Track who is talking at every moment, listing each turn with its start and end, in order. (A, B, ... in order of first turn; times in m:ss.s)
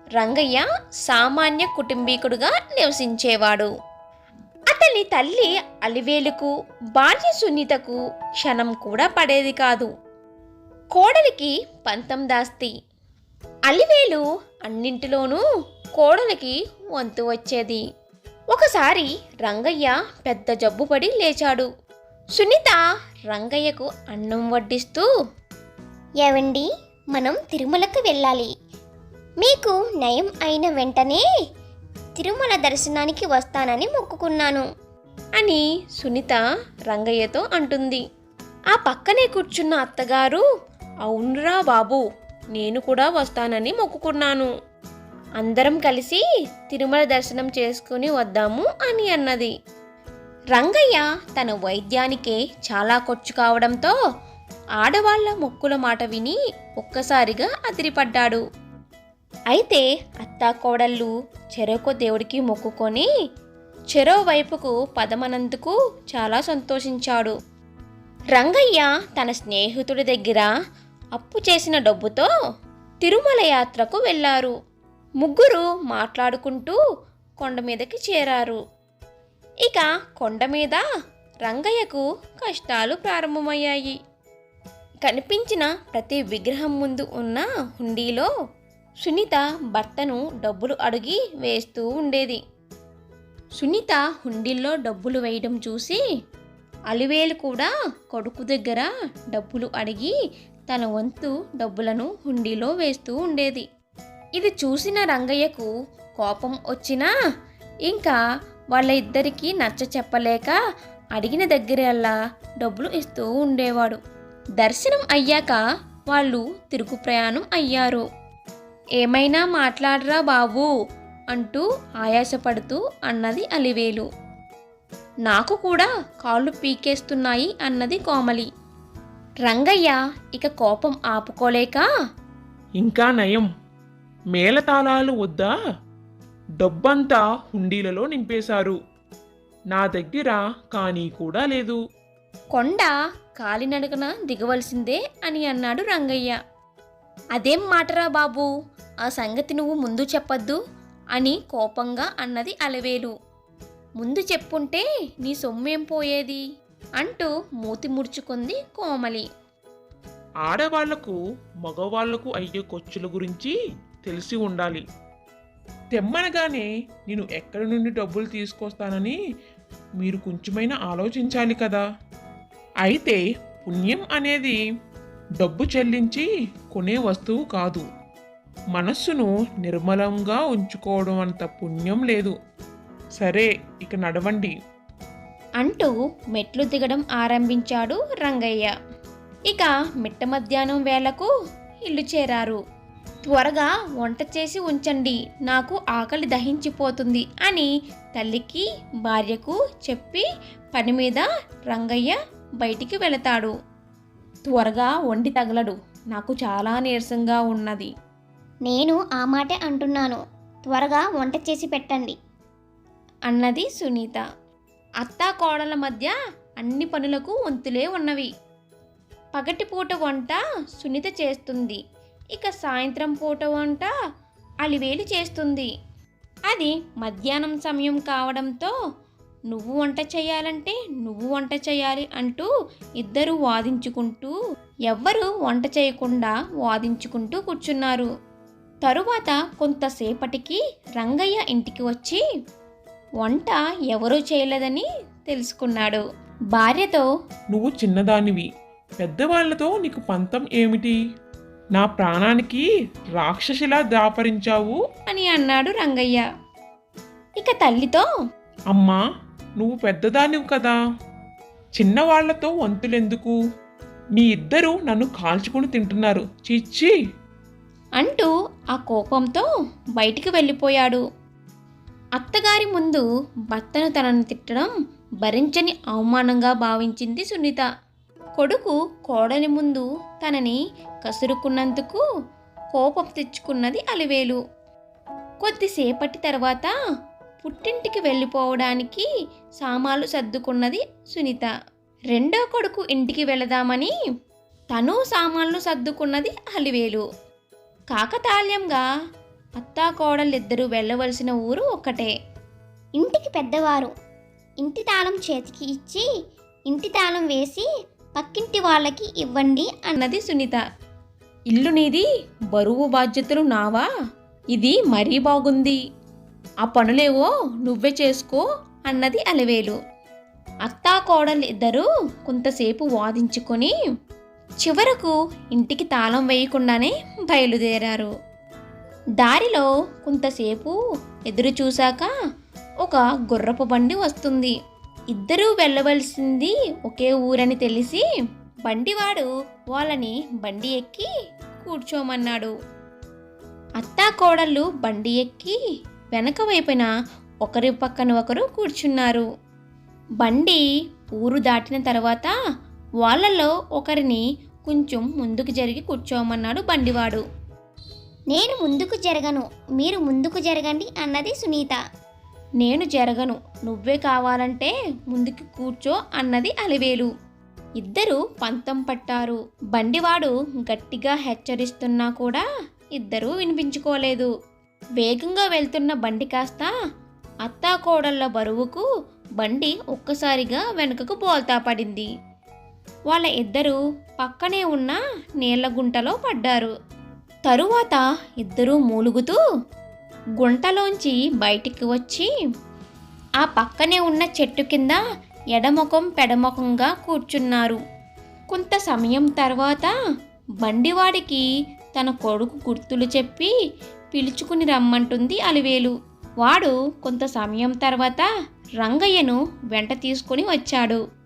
0:00.2-0:03.7 A
0:04.7-0:09.9 A
0:10.9-0:12.7 A
0:13.7-0:15.4 A
0:16.0-0:17.8 A
0:18.5-0:21.7 A
0:22.4-0:22.8 A
0:23.3-0:25.1 A
0:26.2-0:28.5 B
0:29.4-0:31.2 B
0:32.2-0:34.6 B
0:35.4-0:38.0 A
0:38.7-0:40.4 A
0:41.1-0:42.0 A
0:42.6-0:44.5 A
0:45.4-0:49.5 A
0:50.5-0:54.0 A
0:54.8-0:58.4 A
0:59.5-1:03.1 A
1:03.9-1:07.4 A
1:08.4-1:10.5 A
1:11.2-1:12.3 A
1:13.0-1:14.5 A
1:15.2-1:16.8 A
1:17.4-1:18.6 A
1:19.7-1:20.8 A
1:21.5-1:24.0 A
1:25.0-1:28.3 A
1:29.0-1:32.4 A
1:33.6-1:36.0 A
1:36.9-1:40.1 A
1:40.7-1:43.6 A
1:44.4-1:45.7 A
1:46.2-1:47.1 A
1:47.9-1:48.2 A
1:48.8-1:50.6 A
1:51.2-1:54.0 A
1:54.6-1:55.6 A
1:56.1-1:58.1 A
1:59.0-2:00.7 A
2:01.3-2:04.1 A
2:05.3-2:08.5 A
2:09.4-2:11.8 A
2:12.8-2:13.5 C
2:14.4-2:15.5 C
2:16.6-2:18.8 C
2:19.7-2:21.8 C
2:22.6-2:26.4 A
2:27.4-2:28.5 A
2:29.0-2:30.6 A
2:31.2-2:33.1 A
2:34.0-2:36.4 A
2:37.0-2:39.3 A
2:40.4-2:43.5 C
2:44.1-2:44.8 C
2:45.9-2:49.2 C
2:50.0-2:51.8 C
2:52.8-2:54.6 C
2:55.4-2:57.8 C
2:58.8-3:02.4 C
3:03.2-3:04.5 C
3:05.6-3:08.7 A
3:09.5-3:11.3 A
3:11.9-3:12.6 A
3:13.3-3:20.2 A
3:20.8-3:23.5 A
3:24.5-3:27.9 A
3:28.7-3:32.1 B
3:33.3-3:34.2 A
3:35.0-3:38.3 A
3:39.4-3:41.8 A
3:42.3-3:43.9 A
3:44.6-3:45.7 A
3:46.5-3:48.7 A
3:49.5-3:52.5 A
3:53.0-3:54.4 A
3:54.9-3:58.1 A
3:58.8-4:02.2 A
4:03.2-4:06.0 A
4:06.6-4:07.1 A
4:07.5-4:08.5 C
4:09.0-4:11.0 C
4:11.8-4:12.6 C
4:13.2-4:14.8 C
4:15.1-4:16.2 A
4:17.4-4:18.0 A
4:18.7-4:19.0 C
4:19.6-4:20.8 C
4:21.8-4:23.4 C
4:24.2-4:26.9 C
4:28.0-4:29.5 A
4:30.0-4:31.0 A
4:32.2-4:34.7 A
4:35.2-4:37.7 A
4:38.4-4:42.0 A
4:42.8-4:44.4 A
4:45.4-4:46.7 A
4:47.4-4:49.0 A
4:49.6-4:51.5 A
4:52.1-4:53.9 A
4:54.7-4:57.0 A
4:57.9-4:58.8 A
4:59.6-5:02.1 A
5:03.0-5:03.9 B
5:04.6-5:06.0 B
5:06.7-5:07.6 B
5:08.2-5:09.7 B
5:09.8-5:10.6 A
5:11.5-5:13.9 A
5:14.5-5:15.8 A
5:16.6-5:19.8 A
5:20.7-5:23.7 A
5:24.6-5:28.1 A
5:29.2-5:30.8 A
5:31.3-5:32.1 A
5:32.8-5:34.5 A
5:35.1-5:38.0 A
5:38.7-5:41.1 A
5:41.6-5:42.5 A
5:43.8-5:45.6 A
5:46.1-5:46.9 A
5:47.4-5:49.2 A
5:50.2-5:50.6 A
5:51.2-5:52.3 A
5:53.0-5:57.2 A
5:58.4-6:01.7 B
6:02.6-6:07.1 A
6:07.8-6:12.4 A
6:13.0-6:14.3 A
6:15.0-6:16.7 A
6:17.4-6:18.8 A
6:19.4-6:22.1 A
6:23.1-6:26.7 A
6:27.5-6:29.4 A
6:30.4-6:32.3 A
6:33.4-6:35.0 A
6:35.6-6:37.8 A
6:38.5-6:39.9 A
6:40.6-6:41.4 A
6:42.0-6:43.5 A
6:44.1-6:48.2 A
6:48.8-6:51.0 A